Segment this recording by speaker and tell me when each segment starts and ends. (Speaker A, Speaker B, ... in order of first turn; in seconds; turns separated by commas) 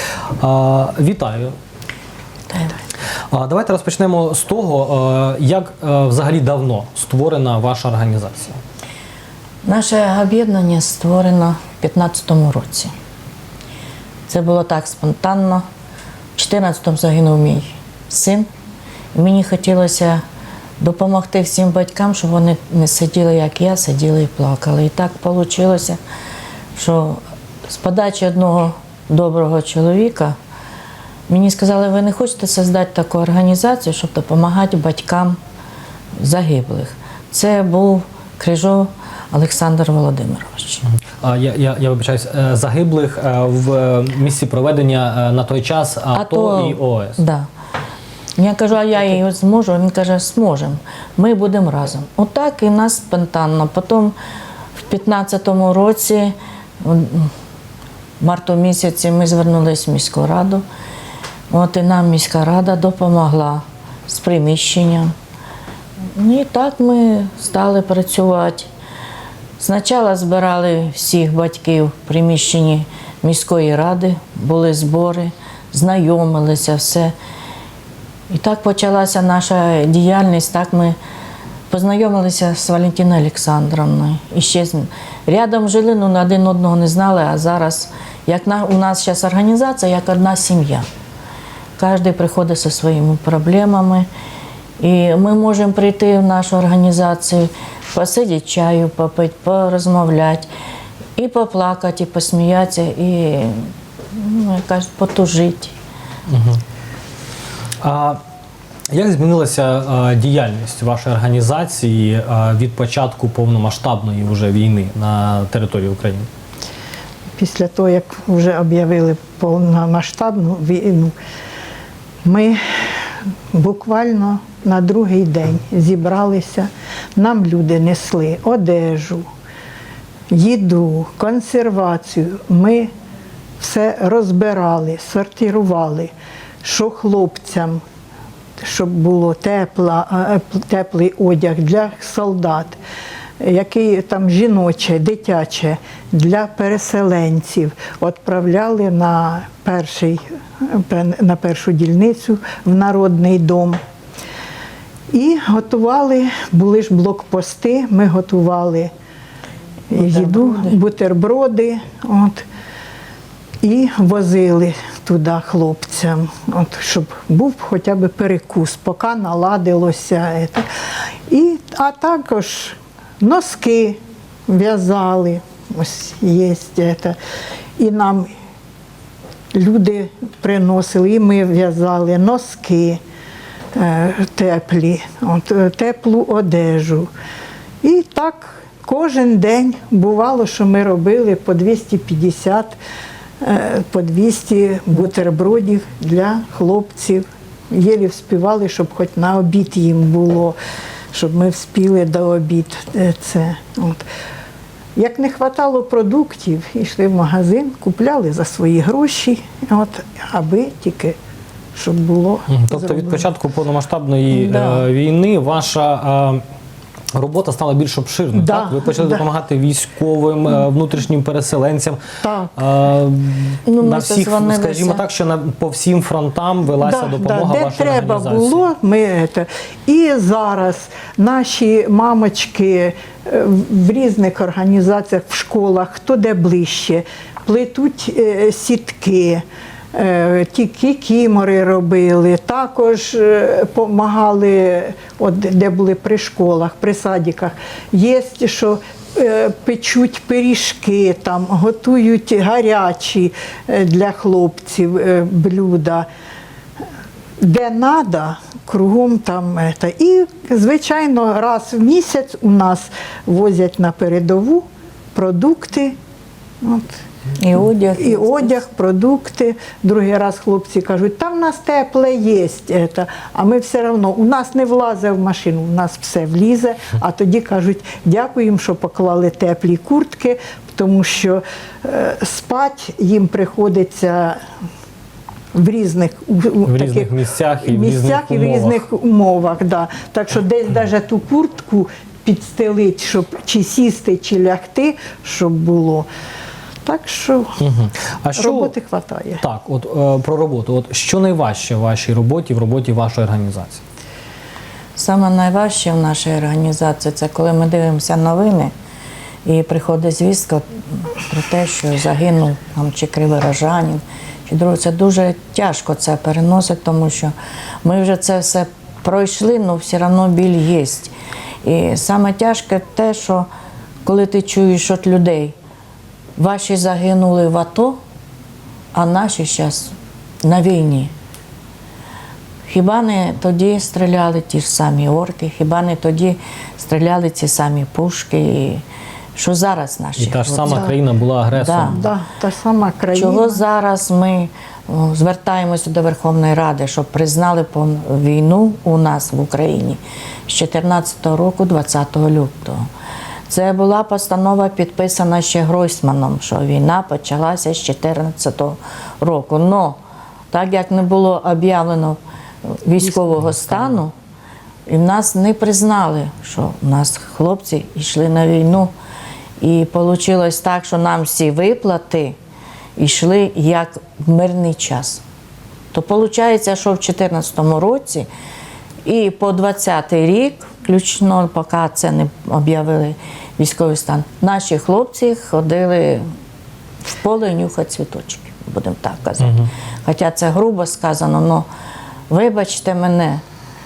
Speaker A: 0.4-1.5, Speaker A: 3.3-8.6, Speaker B: 9.6-12.9, Speaker B: 14.3-15.6, Speaker B: 16.3-18.5, Speaker B: 19.1-20.2, Speaker B: 20.8-26.0, Speaker B: 26.7-30.3, Speaker B: 31.3-35.4, Speaker B: 36.2-40.8, Speaker A: 41.2-47.2, Speaker B: 46.1-47.5, Speaker B: 48.4-54.1, Speaker B: 54.8-57.3, Speaker B: 58.2-60.6, Speaker B: 61.5-65.1, Speaker B: 66.1-68.7, Speaker B: 69.6-77.1, Speaker B: 78.3-81.0, Speaker B: 81.7-90.8, Speaker B: 91.8-94.1, Speaker B: 94.8-100.5, Speaker B: 101.2-105.7, Speaker A: 106.3-106.6, Speaker A: 107.8-108.2, Speaker A: 108.9-116.3, Speaker C: 117.4-121.1, Speaker C: 122.2-129.2, Speaker C: 130.3-132.9, Speaker C: 133.6-136.1, Speaker C: 136.6-137.8, Speaker C: 138.6-142.8, Speaker C: 143.4-153.8, Speaker C: 155.1-158.9, Speaker C: 159.9-162.4, Speaker B: 159.9-160.7, Speaker C: 163.6-170.7, Speaker C: 171.3-177.2, Speaker C: 177.8-178.3, Speaker C: 179.5-183.0, Speaker C: 183.7-187.1, Speaker C: 187.8-192.8, Speaker C: 193.4-200.6, Speaker C: 201.1-204.0, Speaker C: 204.9-211.2, Speaker C: 211.7-213.3, Speaker A: 212.5-216.4, Speaker B: 214.3-214.8, Speaker A: 217.1-222.0, Speaker C: 218.3-219.2, Speaker C: 222.2-222.6, Speaker A: 222.6-228.7, Speaker B: 223.7-225.0, Speaker C: 226.8-256.1, Speaker C: 257.4-266.0, Speaker C: 266.6-267.0, Speaker B: 267.4-268.6, Speaker C: 267.9-284.4, Speaker C: 285.5-287.1, Speaker A: 286.6-288.9, Speaker C: 287.6-296.1, Speaker C: 296.8-297.6, Speaker A: 297.6-298.7, Speaker C: 298.3-299.4, Speaker A: 299.4-303.8, Speaker B: 304.9-308.7, Speaker B: 309.4-321.1, Speaker B: 321.6-323.5, Speaker B: 324.0-325.5, Speaker B: 326.4-328.0, Speaker B: 328.9-331.1, Speaker B: 332.6-338.8, Speaker B: 339.4-340.9, Speaker A: 340.2-342.1, Speaker C: 340.6-340.9, Speaker B: 341.6-342.0, Speaker C: 341.9-343.6, Speaker B: 343.1-352.8, Speaker B: 353.5-360.0, Speaker B: 360.5-364.1, Speaker B: 364.9-368.9, Speaker B: 369.6-372.4, Speaker B: 373.0-375.2, Speaker B: 375.9-378.3, Speaker B: 379.0-386.2, Speaker B: 387.0-391.7, Speaker B: 392.3-393.4